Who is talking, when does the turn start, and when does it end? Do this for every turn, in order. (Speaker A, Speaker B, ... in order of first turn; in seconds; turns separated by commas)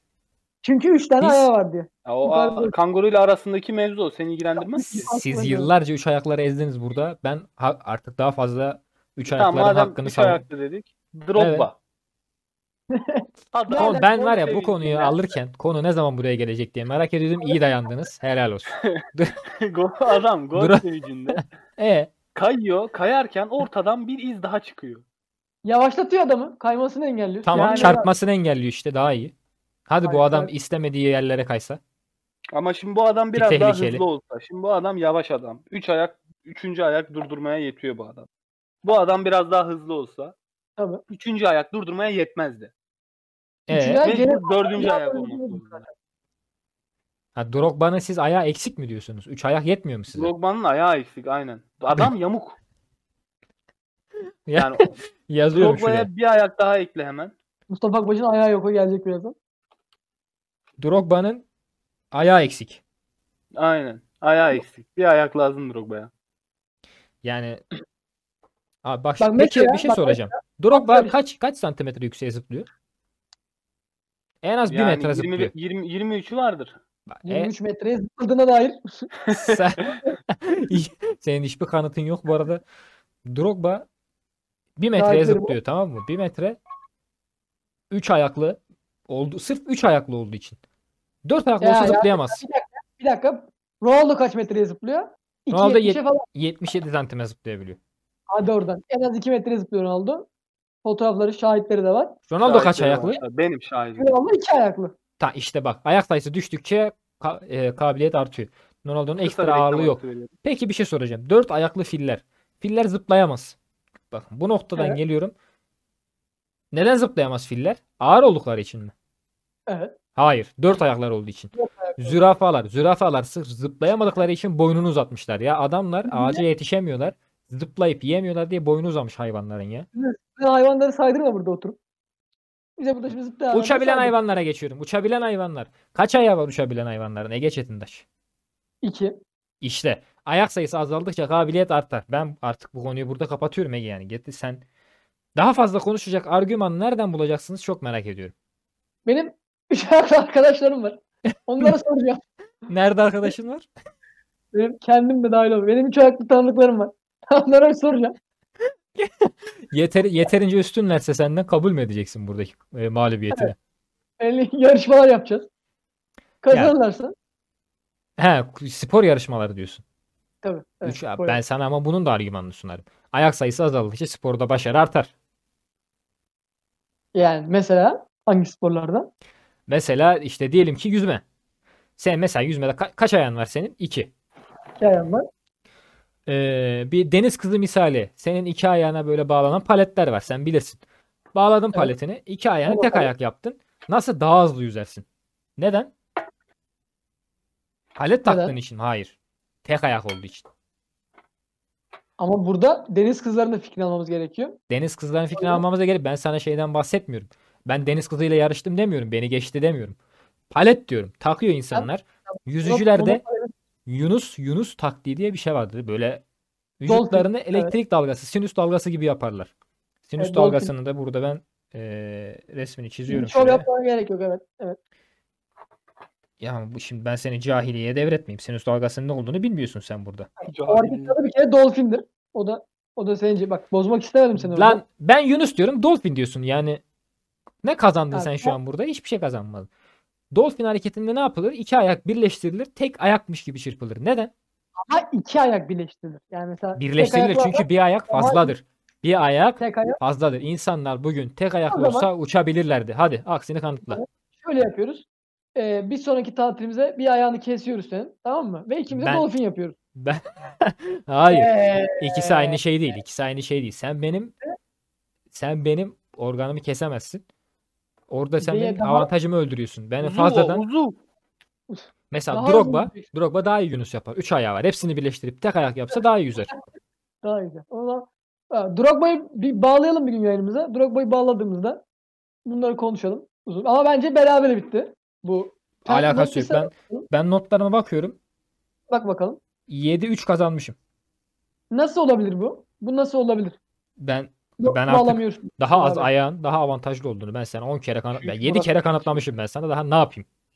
Speaker A: 0.6-2.7, Speaker B: 1.2-1.5, Speaker C: 2.0-5.1, Speaker A: 4.7-5.7, Speaker B: 4.9-10.4, Speaker C: 9.3-11.7, Speaker B: 11.3-11.7, Speaker A: 12.9-14.0, Speaker C: 13.5-15.2, Speaker B: 13.7-19.4, Speaker C: 18.8-21.4, Speaker B: 20.6-22.1, Speaker C: 22.3-25.0, Speaker A: 25.6-28.1, Speaker B: 27.4-29.3, Speaker C: 27.5-28.1, Speaker B: 29.9-31.8, Speaker A: 30.0-30.5, Speaker C: 32.5-38.3, Speaker B: 33.3-34.0, Speaker C: 38.8-40.3, Speaker A: 40.8-41.0, Speaker C: 41.1-42.7, Speaker B: 43.7-44.0, Speaker A: 43.7-45.9, Speaker C: 44.0-45.8, Speaker B: 47.3-50.3, Speaker C: 50.1-52.5, Speaker B: 54.5-56.1, Speaker C: 54.6-54.9, Speaker C: 55.5-57.3, Speaker A: 57.7-59.4, Speaker B: 60.8-61.4, Speaker B: 62.1-62.8, Speaker C: 63.6-66.1, Speaker B: 67.2-67.6, Speaker B: 68.8-72.7, Speaker A: 69.2-71.1, Speaker B: 74.4-75.5, Speaker C: 74.7-76.8, Speaker B: 77.1-77.5, Speaker A: 77.2-79.1, Speaker C: 79.2-79.9, Speaker B: 79.3-82.6, Speaker B: 83.2-83.9, Speaker B: 84.8-86.6, Speaker A: 84.9-85.6, Speaker B: 87.9-90.6, Speaker B: 91.2-92.4, Speaker A: 91.6-96.3, Speaker B: 95.5-97.8, Speaker A: 98.3-100.3, Speaker A: 100.8-102.2, Speaker B: 102.3-103.2, Speaker C: 102.4-104.2, Speaker A: 104.0-104.9, Speaker B: 105.2-113.5, Speaker C: 109.2-110.3, Speaker B: 114.1-115.3, Speaker B: 116.7-118.9, Speaker A: 119.7-119.9, Speaker B: 120.1-129.9, Speaker A: 121.5-122.2, Speaker A: 126.1-126.4, Speaker A: 129.9-131.8, Speaker A: 132.8-134.1, Speaker B: 133.5-138.0, Speaker A: 138.8-139.2, Speaker B: 139.6-144.6, Speaker B: 145.3-148.3, Speaker A: 149.1-152.2, Speaker B: 152.7-153.7, Speaker A: 154.5-158.1, Speaker B: 158.9-163.5, Speaker A: 164.2-165.5, Speaker A: 166.4-167.1, Speaker B: 168.2-169.8, Speaker A: 170.4-171.4, Speaker B: 170.8-175.1, Speaker A: 177.1-179.1, Speaker B: 179.7-181.2, Speaker B: 182.0-184.1, Speaker A: 184.8-185.3, Speaker B: 186.3-190.8, Speaker B: 191.3-195.0, Speaker A: 192.7-193.1, Speaker B: 195.6-195.9, Speaker B: 197.9-200.4, Speaker A: 198.2-198.5, Speaker A: 202.2-204.6, Speaker B: 204.7-209.9, Speaker A: 205.3-205.6, Speaker B: 210.5-213.2, Speaker A: 212.6-213.5, Speaker B: 213.8-216.2, Speaker B: 216.8-219.5, Speaker A: 216.9-217.7, Speaker B: 220.1-223.6, Speaker A: 220.2-220.7, Speaker A: 223.1-224.8, Speaker B: 226.4-230.3, Speaker C: 230.5-231.2, Speaker A: 230.6-234.8, Speaker B: 234.3-236.8, Speaker B: 237.6-239.7, Speaker A: 238.1-238.5, Speaker B: 240.3-244.3, Speaker A: 244.9-248.5, Speaker B: 246.8-254.0, Speaker A: 249.6-250.0, Speaker A: 251.7-252.1, Speaker A: 253.9-259.7, Speaker B: 258.9-259.3, Speaker B: 259.9-264.3, Speaker A: 261.3-262.6, Speaker B: 265.3-267.2, Speaker B: 268.1-270.6, Speaker A: 268.4-269.1, Speaker C: 270.0-271.0, Speaker A: 271.7-273.1, Speaker B: 272.1-276.5, Speaker A: 277.2-281.8, Speaker A: 282.4-287.1, Speaker B: 285.9-288.2, Speaker A: 288.9-289.4, Speaker B: 289.7-290.8, Speaker A: 291.7-293.6, Speaker B: 294.0-300.2, Speaker A: 294.6-296.1, Speaker C: 298.1-299.2